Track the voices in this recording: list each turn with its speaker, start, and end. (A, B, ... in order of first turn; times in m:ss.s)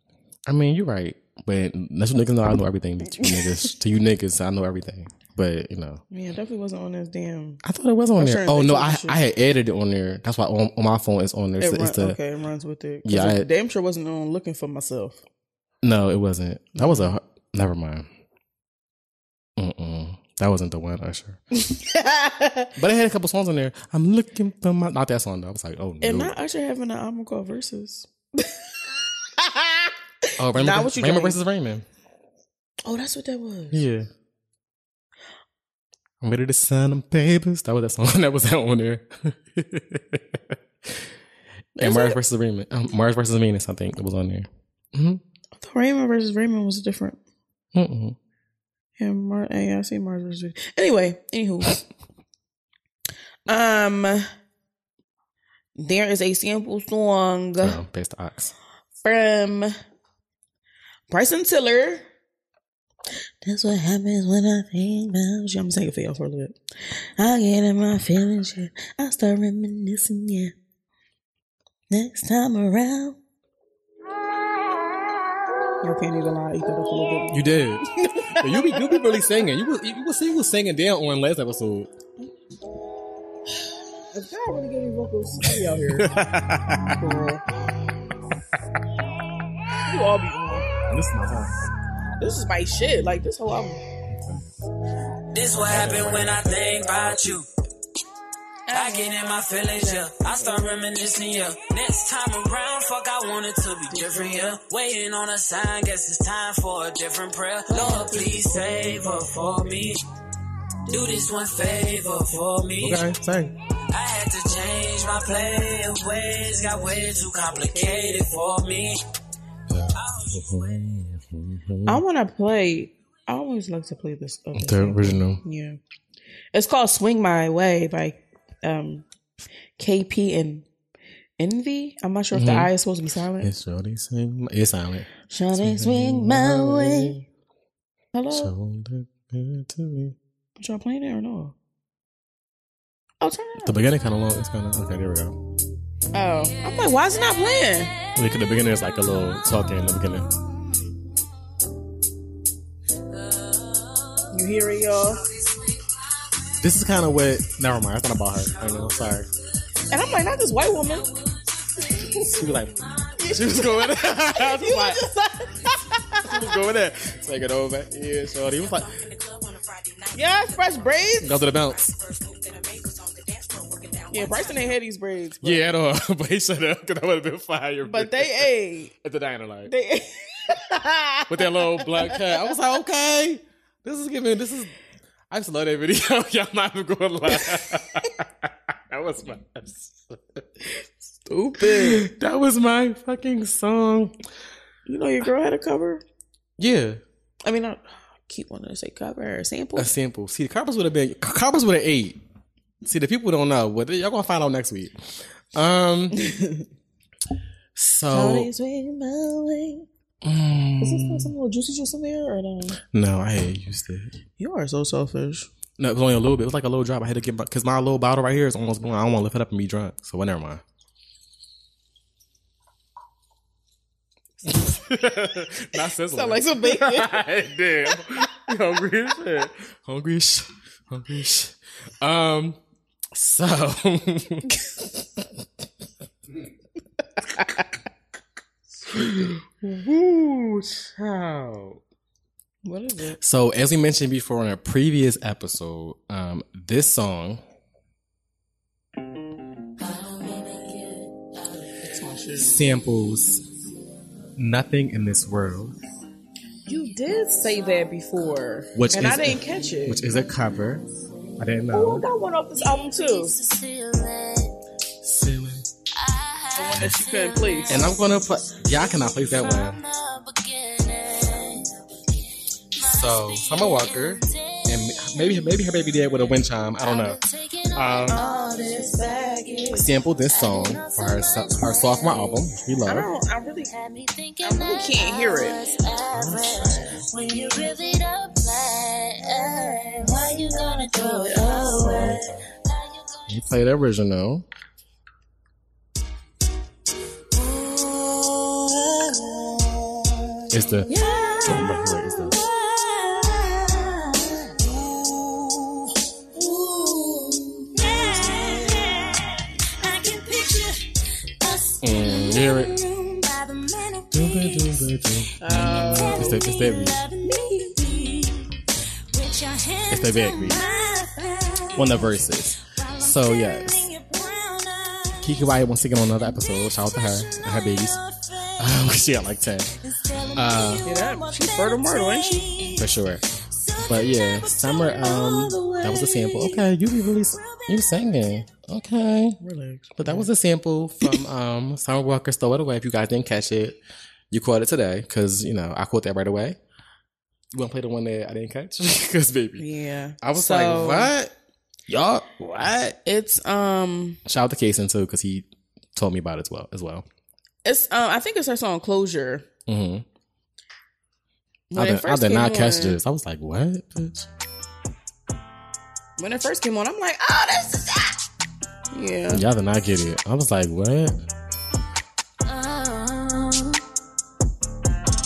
0:00.5-0:06.0 A
0:03.2-0:03.5 B
0:06.1-0:07.6 B
0:07.6-0:12.2 A
0:08.2-0:09.2 B
0:11.6-0:15.2 B
0:13.0-0:13.5 A
0:15.8-0:18.1 A
0:16.8-0:17.1 B
0:19.6-0:21.4 A
0:21.6-0:22.7 B
0:22.8-0:26.4 A
0:26.0-0:28.6 B
0:29.4-0:31.4 B
0:30.4-0:31.9 A
0:32.8-0:33.9 B
0:33.7-0:34.1 A
0:36.2-0:41.1 A
0:41.8-0:42.2 B
0:41.8-0:45.2 A
0:45.6-0:47.2 B
0:47.7-0:48.2 A
0:49.0-0:51.8 B
0:53.5-0:54.3 B
0:55.8-0:57.8 B
0:57.6-0:58.5 A
0:59.0-0:59.7 B
1:01.1-1:02.1 B
1:03.4-1:10.5 B
1:11.9-1:13.2 B
1:15.8-1:19.1 B
1:17.3-1:21.9 A
1:24.1-1:26.1 B
1:25.5-1:27.0 A
1:26.9-1:27.4 B
1:29.8-1:30.7 B
1:30.9-1:31.6 A
1:32.2-1:33.8 B
1:34.1-1:34.5 A
1:35.3-1:37.5 C
1:35.7-1:37.3 A
1:38.7-1:40.8 B
1:38.7-1:50.0 C
1:47.7-1:49.2 B
1:50.9-1:53.0 C
1:52.8-1:53.5 A
1:53.9-1:59.0 C
1:57.6-1:58.2 B
1:59.7-2:02.0 A
2:01.9-2:05.8 B
2:04.6-2:05.4 A
2:06.5-2:09.0 B
2:09.8-2:10.7 B
2:11.4-2:13.5 B
2:12.3-2:12.7 A
2:13.4-2:17.2 A
2:15.3-2:17.2 B
2:18.1-2:18.5 B
2:18.3-2:20.2 A
2:20.6-2:21.6 B
2:23.2-2:23.8 B
2:23.6-2:25.4 A
2:26.1-2:27.9 B
2:26.4-2:30.4 D
2:28.2-2:30.3 A
2:33.2-2:36.5 D
2:34.3-2:35.2 B
2:36.6-2:39.3 A
2:38.5-2:39.2 D
2:39.9-2:41.1 B
2:39.9-2:43.9 D
2:42.0-2:42.4 B
2:42.2-2:42.7 A
2:43.2-2:46.3 B
2:43.3-2:45.0 A
2:46.2-2:49.0 A
2:48.7-2:50.8 D
2:50.1-2:51.4 B
2:51.2-2:52.0 A
2:51.5-2:54.6 D
2:54.1-2:55.7 B
2:55.4-2:59.7 A
2:57.8-2:58.9 B
2:59.7-3:02.4 B
3:01.3-3:04.7 A
3:05.3-3:10.4 A
3:11.3-3:12.0 B
3:11.6-3:14.1 A
3:14.9-3:16.0 B
3:16.6-3:17.0 A
3:17.4-3:19.9 B
3:19.8-3:22.2 A
3:22.8-3:26.2 A
3:26.1-3:26.7 B
3:27.8-3:28.5 A
3:28.1-3:29.9 B
3:30.2-3:31.3 A
3:30.8-3:32.8 B
3:32.9-3:34.1 A
3:34.4-3:35.5 B
3:35.8-3:40.6 A
3:44.4-3:52.6 A
3:46.0-3:47.2 B
3:53.1-3:55.2 A
3:57.3-3:57.6 A
3:58.8-4:01.8 A
4:02.6-4:03.2 B
4:03.2-4:07.4 A
4:09.8-4:11.1 D
4:11.8-4:12.5 B
4:12.4-4:13.4 A
4:14.4-4:15.8 A
4:16.7-4:20.0 B
4:18.8-4:20.8 A
4:21.4-4:22.1 A
4:21.7-4:23.4 B
4:22.6-4:24.6 D
4:25.0-4:25.7 A
4:25.9-4:31.7 D
4:26.6-4:27.8 B
4:27.7-4:29.8 A
4:32.7-4:42.6 D
4:32.8-4:37.2 A
4:37.8-4:38.2 A
4:38.1-4:39.9 B
4:39.8-4:43.1 A
4:42.9-4:43.7 B
4:43.6-4:53.6 D
4:44.4-4:45.6 B
4:46.1-4:47.0 A
4:51.6-4:52.0 B
4:51.8-4:52.4 A
4:53.3-4:54.5 A
4:57.3-4:59.9 D
5:00.5-5:00.9 A
5:00.5-5:05.0 D
5:00.9-5:01.4 B
5:01.4-5:02.4 A
5:06.4-5:10.9 D
5:11.4-5:15.0 D
5:11.8-5:12.7 A
5:14.1-5:17.0 A
5:15.4-5:16.4 B
5:15.6-5:18.6 D
5:17.2-5:17.8 B
5:19.1-5:29.0 D
5:19.9-5:20.7 A
5:21.8-5:23.9 A
5:25.2-5:28.0 A
5:28.6-5:29.7 A
5:29.8-5:38.6 D
5:30.4-5:30.9 A
5:30.8-5:32.5 B
5:32.8-5:33.2 A
5:33.8-5:39.4 A
5:39.4-5:40.3 B
5:40.0-5:43.8 A
5:44.3-5:46.6 A
5:47.5-5:49.7 A
5:49.6-5:51.1 B
5:50.2-5:51.3 A
5:51.9-5:53.0 A
5:53.0-5:54.2 B
5:54.3-5:57.1 A
5:57.6-5:59.4 B
5:59.7-6:00.0 A
6:01.7-6:03.0 B
6:01.8-6:04.3 A
6:06.2-6:08.2 B
6:08.9-6:09.4 B
6:09.3-6:11.2 A
6:12.4-6:13.8 D